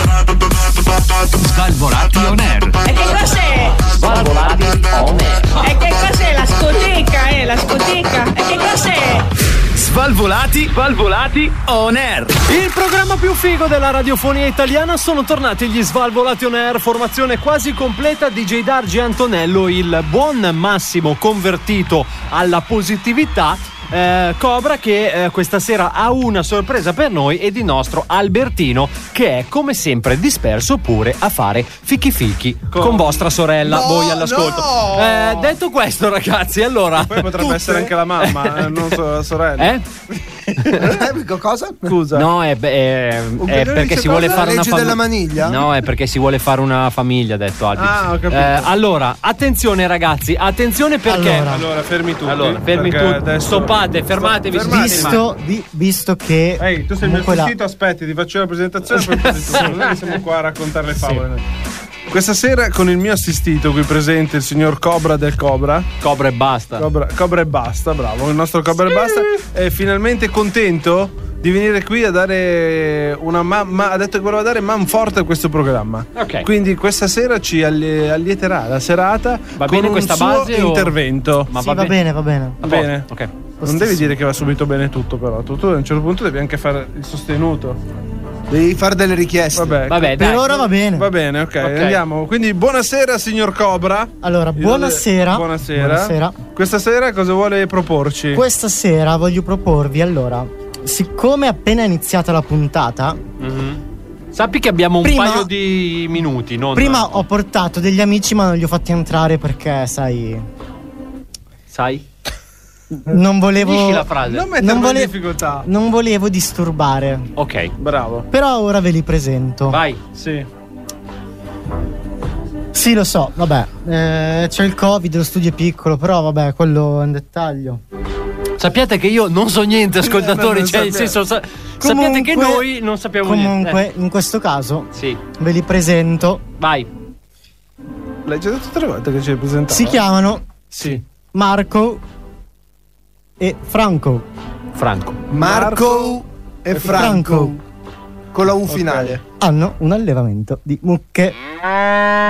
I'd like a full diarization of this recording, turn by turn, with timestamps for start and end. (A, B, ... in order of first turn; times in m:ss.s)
0:01.4-0:02.9 A
0:02.9-0:03.7 B
0:04.0-0:05.5 C
0:04.2-0:04.5 A
0:05.6-0:09.2 B
0:09.7-0:12.4 A
0:12.5-0:37.7 C
0:32.7-0:35.5 D
0:37.0-0:39.7 D
0:37.5-0:37.9 E
0:38.2-0:38.8 C
0:39.6-0:39.8 C
0:40.7-0:41.9 E
0:41.8-0:42.3 D
0:42.1-0:51.5 C
0:43.4-0:44.6 D
0:44.2-0:45.6 E
0:47.8-0:48.7 D
0:51.1-0:51.7 F
0:51.4-0:55.2 D
0:52.2-0:55.2 C
0:54.7-0:57.5 F
0:56.6-1:01.4 D
0:59.0-1:00.0 C
1:02.1-1:05.9 D
1:06.0-1:06.9 C
1:06.8-1:21.5 D
1:08.8-1:09.2 C
1:16.1-1:16.5 C
1:19.6-1:21.0 C
1:21.5-1:22.0 C
1:21.5-1:22.6 F
1:22.6-1:23.1 D
1:22.6-1:23.3 C
1:23.6-1:24.1 F
1:23.6-1:27.8 D
1:28.5-1:29.8 E
1:29.5-1:38.4 D
1:29.9-1:30.5 C
1:30.2-1:31.1 F
1:31.6-1:32.0 C
1:34.2-1:36.4 F
1:38.3-1:43.2 F
1:43.4-1:43.8 C
1:44.3-1:47.2 C
1:45.0-1:45.5 F
1:46.7-1:50.5 F
1:51.7-1:52.0 C
1:52.9-1:57.3 F
1:53.6-1:54.5 C
1:54.3-1:55.7 D
1:57.4-1:57.7 C
1:57.8-1:58.3 D
1:58.3-1:59.8 F
1:59.7-2:00.0 C
2:00.1-2:00.5 D
2:02.7-2:07.8 F
2:08.6-2:13.8 C
2:10.0-2:11.2 D
2:11.8-2:12.7 F
2:13.2-2:16.4 F
2:14.9-2:15.2 C
2:16.6-2:16.9 C
2:18.2-2:20.0 D
2:19.7-2:20.4 F
2:21.3-2:22.0 F
2:23.4-2:24.3 F
2:24.7-2:25.2 C
2:25.3-2:27.6 E
2:25.4-2:26.2 D
2:26.7-2:27.1 D
2:26.8-2:27.6 F
2:28.3-2:29.2 E
2:28.7-2:29.2 D
2:29.4-2:31.4 F